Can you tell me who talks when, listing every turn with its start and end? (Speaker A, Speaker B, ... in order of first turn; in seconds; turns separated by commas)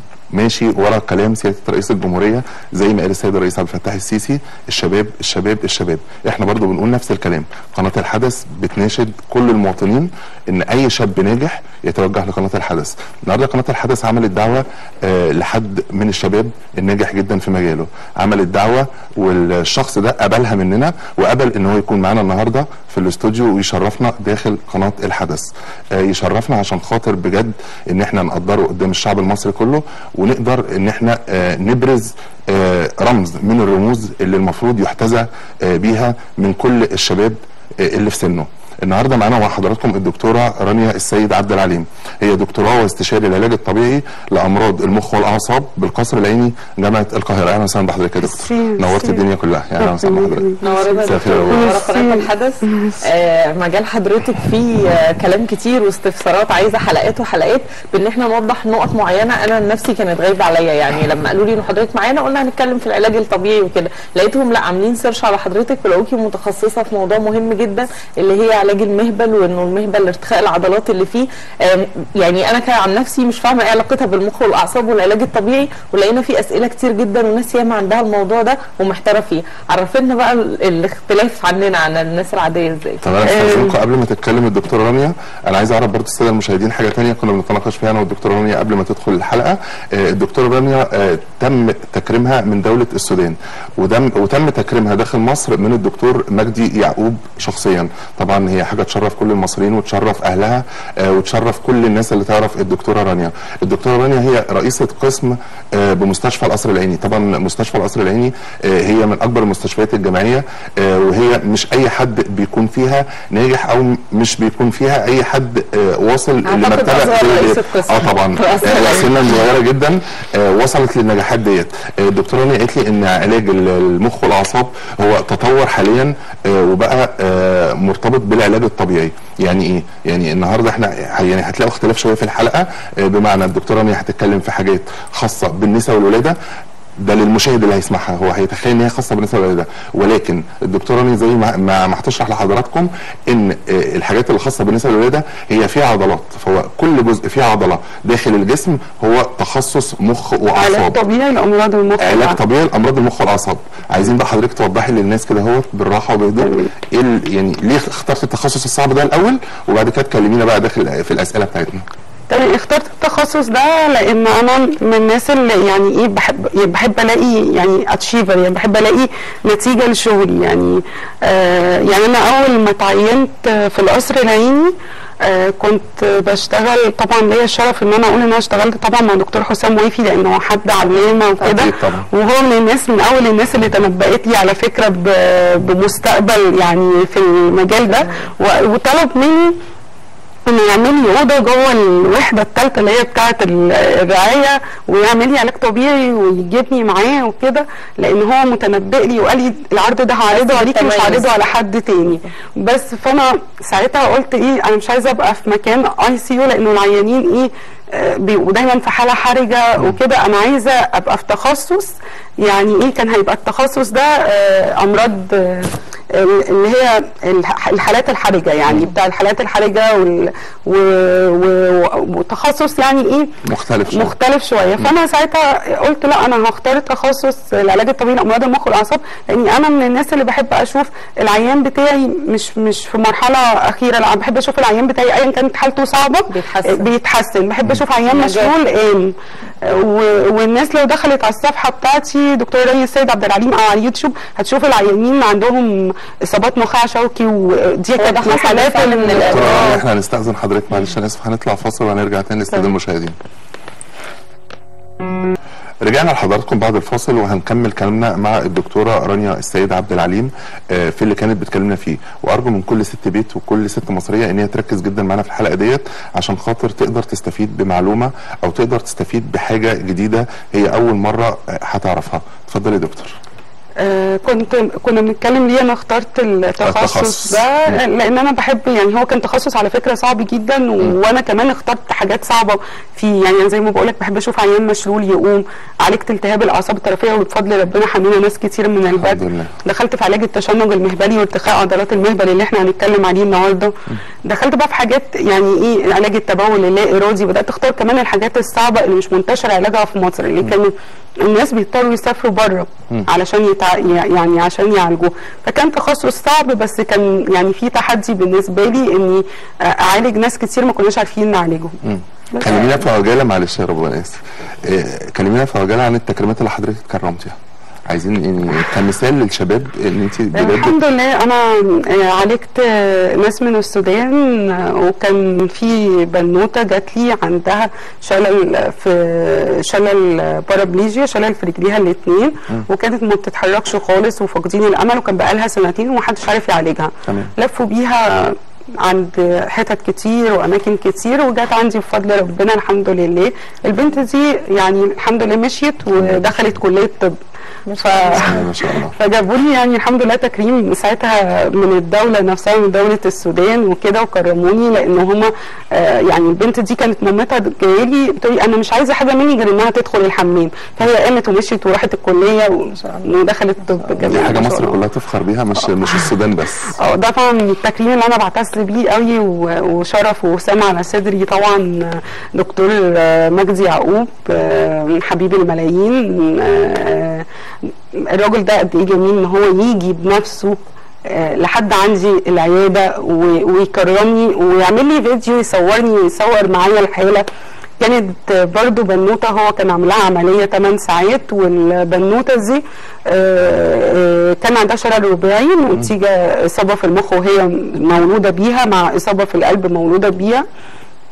Speaker A: 0.3-50.5, Speaker B: 48.2-49.2, Speaker B: 49.8-50.8, Speaker C: 50.6-83.0, Speaker A: 51.0-51.7, Speaker B: 51.5-53.0, Speaker A: 83.0-136.4, Speaker B: 83.3-83.8, Speaker C: 116.5-119.2, Speaker A: 137.0-151.0, Speaker B: 150.6-152.4, Speaker A: 152.0-161.8, Speaker B: 156.4-156.7, Speaker B: 162.3-174.7, Speaker B: 175.2-189.6, Speaker A: 181.4-182.1, Speaker B: 190.5-223.3, Speaker C: 200.3-201.4, Speaker A: 223.4-224.1, Speaker B: 223.9-249.7, Speaker C: 236.3-236.9, Speaker C: 238.1-238.5, Speaker C: 248.0-249.8, Speaker A: 249.2-253.2, Speaker A: 255.8-273.1, Speaker B: 273.8-293.7, Speaker A: 276.6-277.8, Speaker A: 289.0-289.5, Speaker B: 294.2-311.8, Speaker A: 311.8-317.4, Speaker C: 312.4-312.7, Speaker A: 317.9-320.8, Speaker B: 320.3-347.2, Speaker A: 337.1-337.3, Speaker C: 347.7-348.5, Speaker B: 347.8-348.4, Speaker A: 348.2-348.9, Speaker B: 348.9-364.8, Speaker C: 362.7-363.1, Speaker C: 363.7-364.5, Speaker A: 364.1-366.8, Speaker B: 366.8-377.3, Speaker B: 378.1-387.3, Speaker B: 387.8-400.4